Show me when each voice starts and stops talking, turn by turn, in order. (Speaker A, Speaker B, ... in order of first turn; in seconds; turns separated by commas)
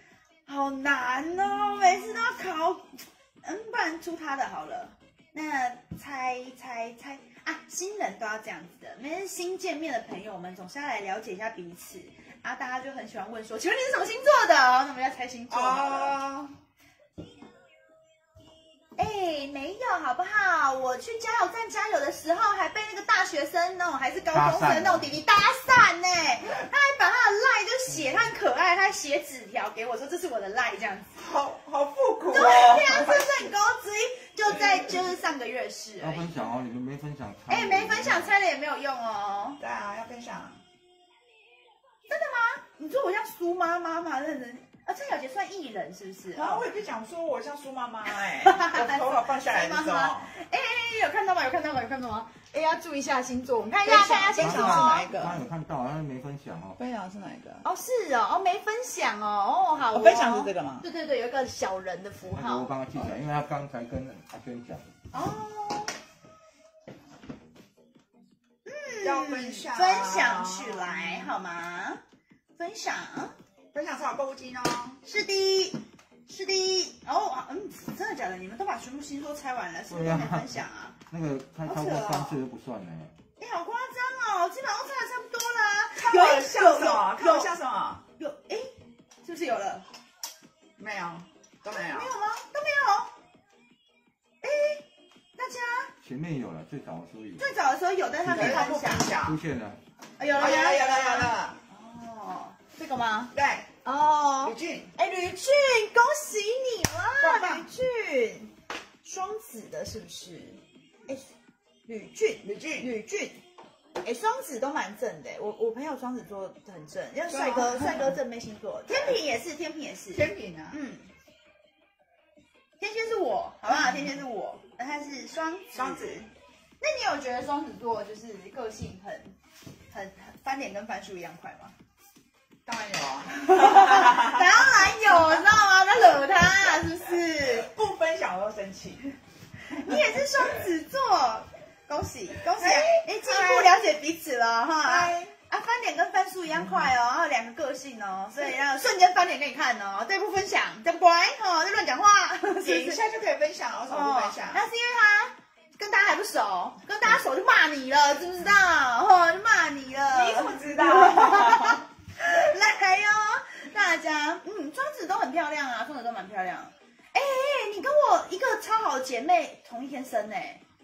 Speaker A: 0.5-16.1, Speaker B: 15.5-16.5, Speaker A: 18.9-31.1, Speaker C: 24.3-25.1, Speaker B: 31.1-33.5, Speaker A: 32.3-36.5, Speaker C: 36.0-38.3, Speaker A: 37.5-39.6, Speaker B: 39.6-40.6, Speaker A: 42.1-46.6, Speaker B: 46.3-50.3, Speaker A: 48.4-55.4, Speaker B: 53.8-55.4, Speaker C: 54.3-56.8, Speaker B: 56.8-57.6, Speaker A: 57.6-62.7, Speaker B: 59.9-60.9, Speaker C: 62.3-64.9, Speaker A: 65.1-65.9, Speaker A: 68.7-72.0, Speaker B: 69.0-71.4, Speaker A: 72.6-73.3, Speaker B: 73.7-75.0, Speaker A: 75.0-81.0, Speaker C: 79.9-80.5, Speaker C: 81.1-83.1, Speaker A: 81.6-82.4, Speaker A: 83.4-87.5, Speaker B: 85.9-88.0, Speaker A: 88.2-88.7, Speaker A: 89.2-89.9, Speaker B: 90.8-92.1, Speaker A: 91.7-93.1, Speaker A: 94.4-94.8, Speaker A: 95.3-95.9, Speaker C: 96.0-97.5, Speaker A: 97.4-99.2, Speaker C: 98.2-99.8, Speaker B: 98.3-99.4, Speaker A: 100.2-108.5, Speaker B: 100.3-101.6, Speaker B: 103.3-103.7, Speaker B: 104.4-104.9, Speaker B: 107.2-107.7, Speaker A: 109.0-111.2, Speaker A: 111.8-113.4, Speaker B: 112.4-112.9, Speaker A: 114.0-121.1, Speaker B: 117.3-118.2, Speaker B: 118.9-119.2, Speaker B: 120.1-120.8, Speaker A: 122.8-126.2, Speaker B: 123.7-124.1, Speaker B: 125.7-126.3, Speaker A: 126.8-129.3, Speaker A: 129.9-131.7, Speaker B: 132.7-135.5, Speaker A: 133.4-137.7, Speaker B: 137.4-139.1, Speaker A: 139.7-153.0, Speaker B: 142.5-143.7, Speaker B: 144.8-145.3, Speaker B: 152.6-154.6, Speaker A: 153.9-170.6, Speaker B: 160.1-161.8